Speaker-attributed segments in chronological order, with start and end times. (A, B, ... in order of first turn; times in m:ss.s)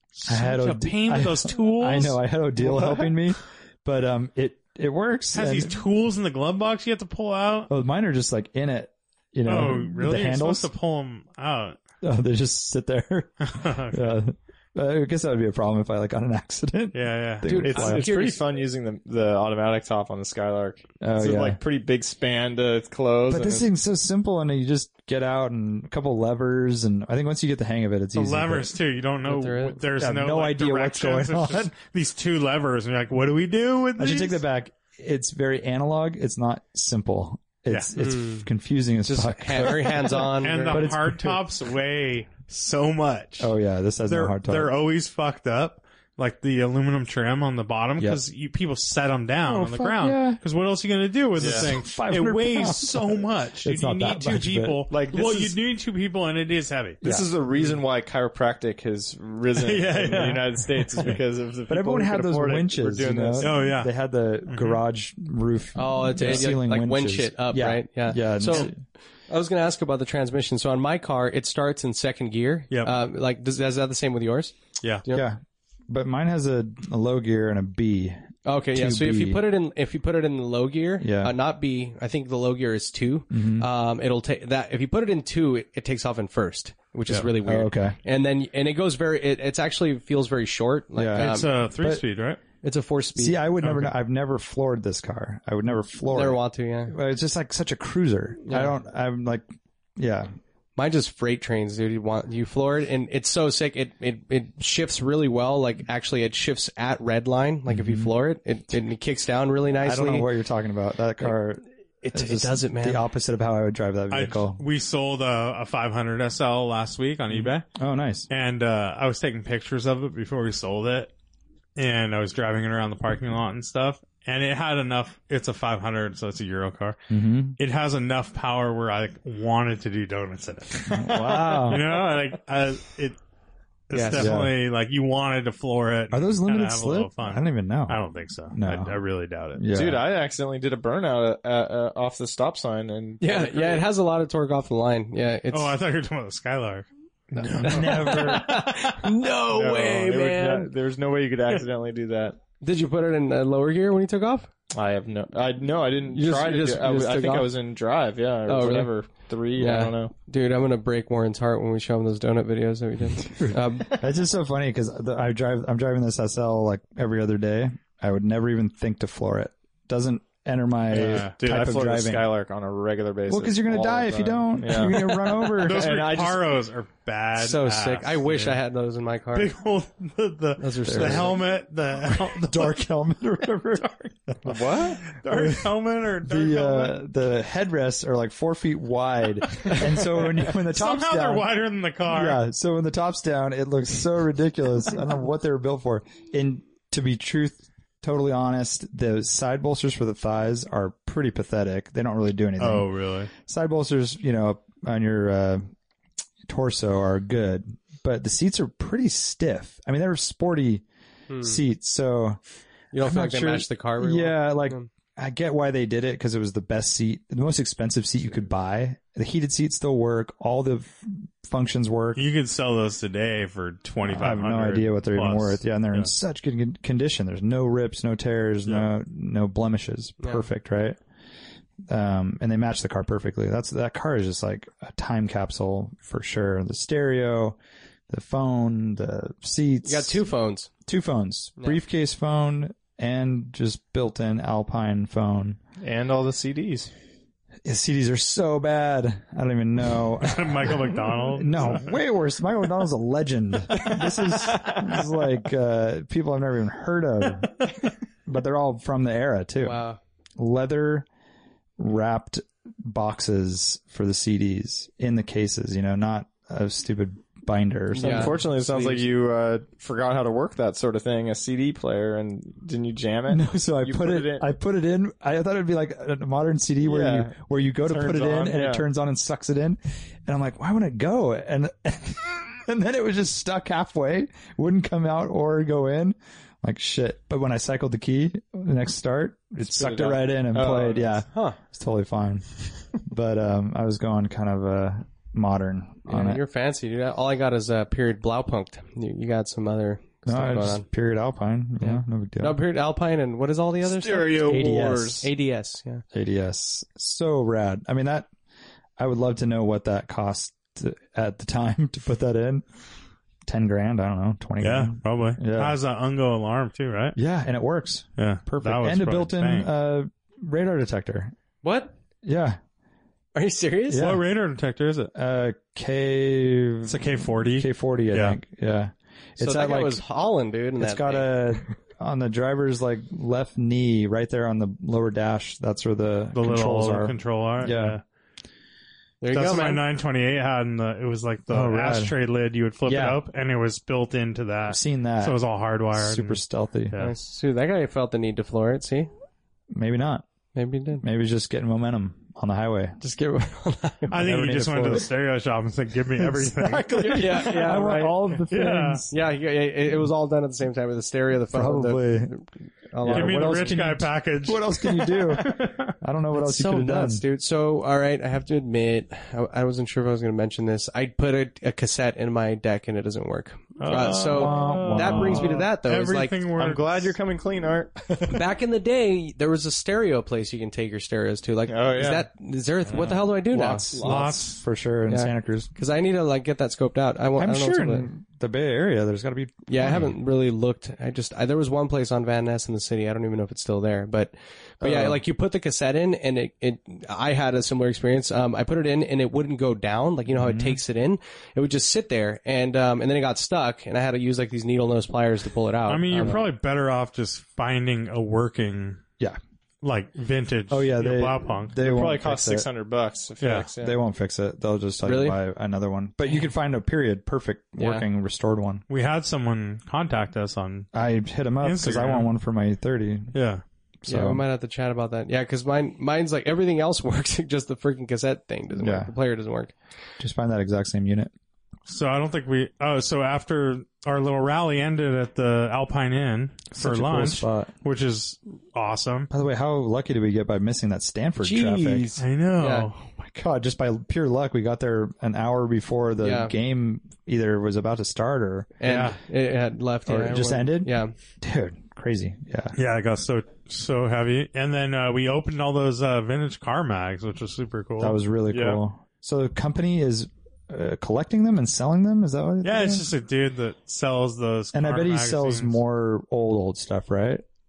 0:00.2-0:02.2 A
0:00.3-0:05.8 B
0:02.6-0:03.1 C
0:05.3-0:07.7 A
0:07.7-0:10.7 B
0:09.4-0:11.8 A
0:12.0-0:18.0 B
0:13.4-0:14.2 A
0:16.9-0:17.8 A
0:17.4-0:18.4 D
0:17.6-0:23.7 C
0:21.0-0:21.6 B
0:23.3-0:28.8 B
0:28.1-0:34.4 A
0:29.2-0:29.8 D
0:30.0-0:31.7 B
0:34.0-0:41.4 B
0:38.0-0:38.4 D
0:39.0-0:40.9 D
0:40.4-0:43.5 A
0:43.4-0:44.7 B
0:44.0-0:57.0 A
0:49.4-0:50.4 B
0:51.4-0:51.7 C
0:51.4-0:54.8 B
0:54.9-0:55.5 C
0:57.0-0:57.3 B
0:57.0-1:03.7 C
0:59.6-1:01.1 A
1:01.7-1:08.7 B
1:03.4-1:03.9 A
1:04.5-1:04.8 A
1:05.8-1:08.7 D
1:09.3-1:15.3 D
1:15.1-1:19.4 B
1:18.4-1:31.5 D
1:21.0-1:21.3 B
1:23.3-1:23.7 B
1:27.4-1:28.0 B
1:31.0-1:32.0 B
1:31.2-1:32.4 A
1:32.6-1:33.4 D
1:33.2-1:39.4 B
1:33.6-1:33.9 A
1:36.1-1:36.9 D
1:38.4-1:38.7 D
1:40.0-1:40.3 B
1:40.8-1:50.3 D
1:47.7-1:48.1 B
1:49.7-1:54.6 B
1:52.0-1:53.0 D
1:54.1-1:57.6 A
1:57.3-1:58.3 B
1:58.3-2:01.1 A
2:01.8-2:07.0 A
2:07.1-2:07.6 B
2:07.6-2:13.2 A
2:10.9-2:11.8 B
2:11.1-2:11.7 C
2:13.9-2:19.6 A
2:13.9-2:14.4 D
2:14.1-2:14.5 B
2:16.1-2:18.0 B
2:18.5-2:19.0 B
2:19.6-2:20.0 B
2:19.7-2:23.8 C
2:23.2-2:25.8 D
2:25.5-2:29.1 A
2:27.4-2:30.7 D
2:27.6-2:28.6 B
2:29.5-2:32.4 C
2:32.6-2:34.5 D
2:34.7-2:40.1 C
2:36.1-2:37.5 D
2:38.4-2:38.9 D
2:39.5-2:44.0 D
2:43.2-2:52.3 B
2:50.9-2:51.3 A
2:51.0-2:56.5 C
2:53.3-2:56.0 B
2:55.4-2:58.6 A
2:57.4-2:59.5 D
2:59.3-3:02.8 A
3:00.6-3:01.4 D
3:00.8-3:01.4 B
3:02.3-3:05.7 B
3:04.4-3:05.0 C
3:05.0-3:07.0 A
3:06.2-3:11.5 B
3:10.1-3:12.4 A
3:12.1-3:25.6 B
3:22.6-3:23.3 A
3:26.5-3:30.8 B
3:31.3-3:31.6 D
3:31.4-3:32.4 B
3:32.9-3:34.9 D
3:33.0-3:42.2 B
3:42.2-3:46.1 A
3:44.1-3:51.0 B
3:51.9-3:57.6 B
3:58.1-4:00.2 B
3:59.8-4:00.7 D
4:00.8-4:05.6 B
4:05.8-4:06.9 C
4:07.6-4:17.7 B
4:10.2-4:11.9 A
4:18.2-4:19.8 B
4:19.6-4:20.0 D
4:20.4-4:21.0 B
4:21.8-4:28.4 B
4:27.9-4:29.1 D
4:28.0-4:34.5 C
4:33.3-4:56.4 B
4:36.8-4:37.3 C
4:37.8-4:38.8 C
4:49.6-4:51.2 C
4:51.3-4:51.6 D
4:56.0-5:00.8 D
5:00.2-5:02.6 B
5:01.8-5:06.0 D
5:03.8-5:05.3 C
5:04.5-5:05.3 B
5:06.1-5:08.3 B
5:09.0-5:12.6 B
5:13.4-5:15.8 B
5:14.6-5:17.2 A
5:17.2-5:21.3 B
5:18.2-5:19.7 A
5:21.6-5:21.9 D
5:22.2-5:22.6 B
5:23.3-5:24.1 D
5:23.9-5:24.2 B
5:23.9-5:25.1 A
5:25.1-5:30.0 B
5:26.9-5:28.4 A
5:29.4-5:31.3 D
5:30.8-5:38.0 B
5:36.3-5:38.0 A
5:39.2-5:39.8 D
5:39.3-5:47.1 A
5:41.5-5:42.1 B
5:42.8-5:43.2 B
5:44.7-5:45.4 B
5:45.9-5:46.9 B
5:47.0-5:49.1 D
5:49.7-5:50.2 B
5:50.5-5:51.0 D
5:51.0-5:53.0 B
5:53.0-5:54.2 D
5:54.1-5:57.5 A
5:54.2-5:55.1 B
5:56.2-5:59.1 B
5:57.0-5:58.4 D
5:58.5-5:59.0 A
5:59.1-6:03.7 D
6:01.5-6:02.3 B
6:03.0-6:07.2 B
6:03.0-6:05.9 A
6:06.4-6:16.4 D
6:13.8-6:17.1 A
6:14.3-6:15.6 B
6:16.5-6:18.4 C
6:18.3-6:24.0 D
6:21.7-6:22.3 C
6:23.0-6:24.4 C
6:23.5-6:25.7 B
6:24.0-6:24.6 A
6:25.1-6:28.1 D
6:27.4-6:30.1 B
6:29.7-6:46.4 D
6:34.8-6:35.1 B
6:40.3-6:40.8 B
6:45.9-6:49.0 A
6:49.8-6:51.8 A
6:50.7-6:52.7 B
6:51.8-6:54.0 C
6:53.4-6:53.7 A
6:53.8-6:58.8 B
6:55.0-6:55.4 D
6:57.8-6:58.0 D
6:58.9-7:00.9 A
7:00.9-7:03.3 B
7:01.6-7:02.3 A
7:03.3-7:03.6 A
7:04.0-7:04.4 B
7:04.1-7:09.7 D
7:08.8-7:09.1 B
7:10.2-7:11.3 B
7:11.9-7:19.3 A
7:16.7-7:17.7 B
7:19.3-7:22.1 B
7:21.4-7:22.9 D
7:22.2-7:23.1 A
7:23.2-7:28.8 B
7:26.2-7:26.5 D
7:28.8-7:31.1 D
7:28.8-7:29.2 A
7:30.1-7:32.8 B
7:32.7-7:38.2 A
7:38.0-7:43.0 B
7:38.5-7:38.8 C
7:42.6-7:45.8 A
7:44.7-7:47.4 B